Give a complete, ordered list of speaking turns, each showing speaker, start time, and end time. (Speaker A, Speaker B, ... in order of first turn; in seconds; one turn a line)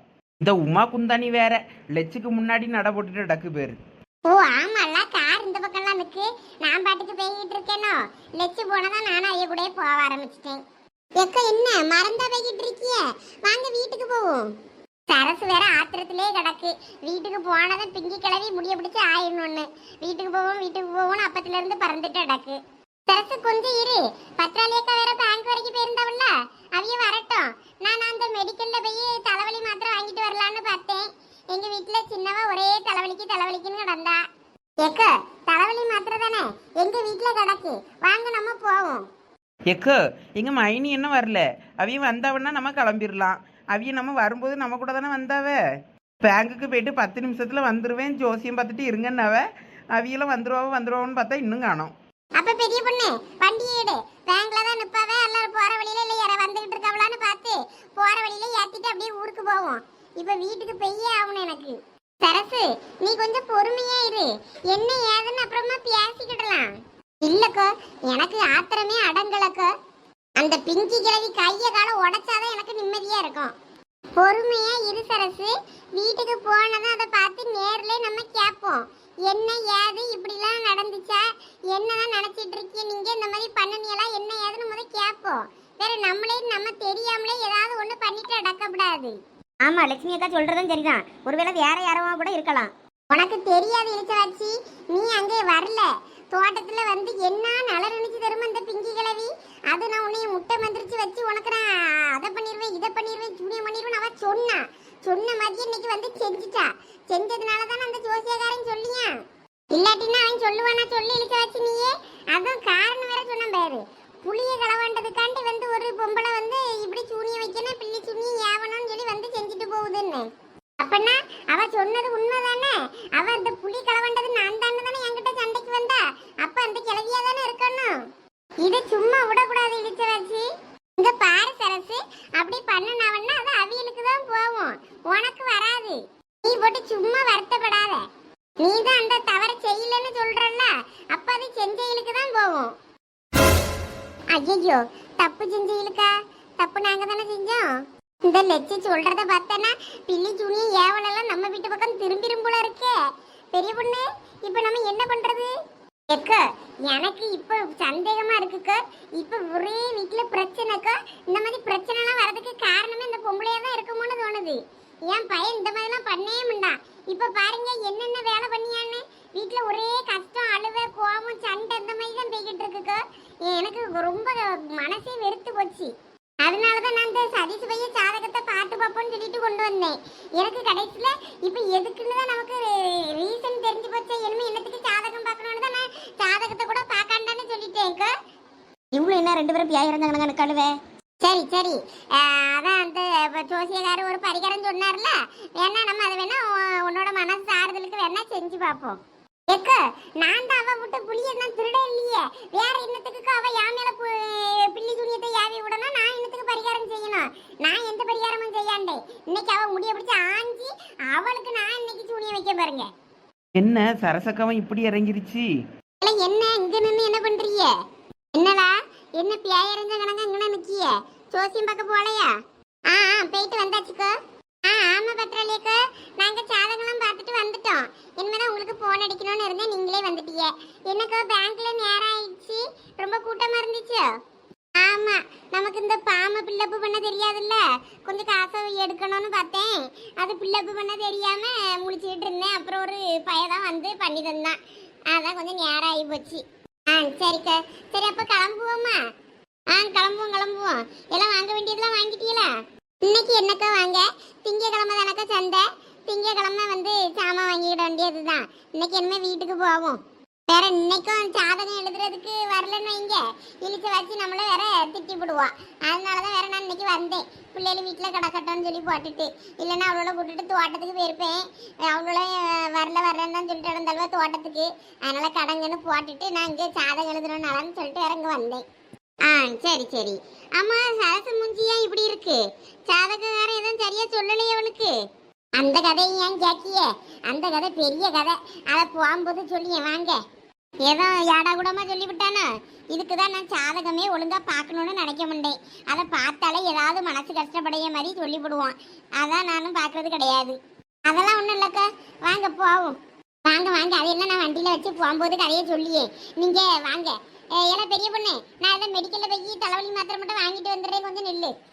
Speaker A: 0.4-3.8
Speaker B: 4.2-10.6
Speaker B: 11.1-14.5
Speaker B: 15.1-34.2
Speaker B: 34.8-39.0
Speaker A: 39.7-45.6
Speaker A: 46.2-51.9
Speaker B: 52.4-66.7
Speaker B: 67.2-69.7
Speaker B: 70.4-73.5
Speaker B: 74.2-89.2
Speaker C: 89.6-92.7
Speaker B: 93.1-109.2
Speaker B: 109.7-120.3
Speaker B: 120.8-128.0
Speaker B: 128.6-138.1
Speaker B: 138.6-142.7
Speaker B: 144.3-147.7
Speaker B: 148.2-153.0
Speaker B: 153.5-155.5
Speaker B: 156.1-188.1
Speaker C: 188.9-190.7
Speaker B: 191.2-198.8
Speaker C: 198.7-199.0
Speaker B: 199.5-212.9
Speaker A: 213.6-215.5
Speaker B: 216.0-217.7
Speaker B: 218.3-222.3
Speaker B: 222.9-234.0
Speaker B: 234.8-244.6
Speaker B: 245.1-249.0
Speaker B: 249.7-252.5
Speaker B: 253.0-278.6
Speaker C: 279.2-279.5
Speaker B: 279.5-282.4
Speaker B: 283.0-284.9
Speaker B: 285.6-290.2
Speaker B: 290.9-300.5
Speaker B: 301.1-311.5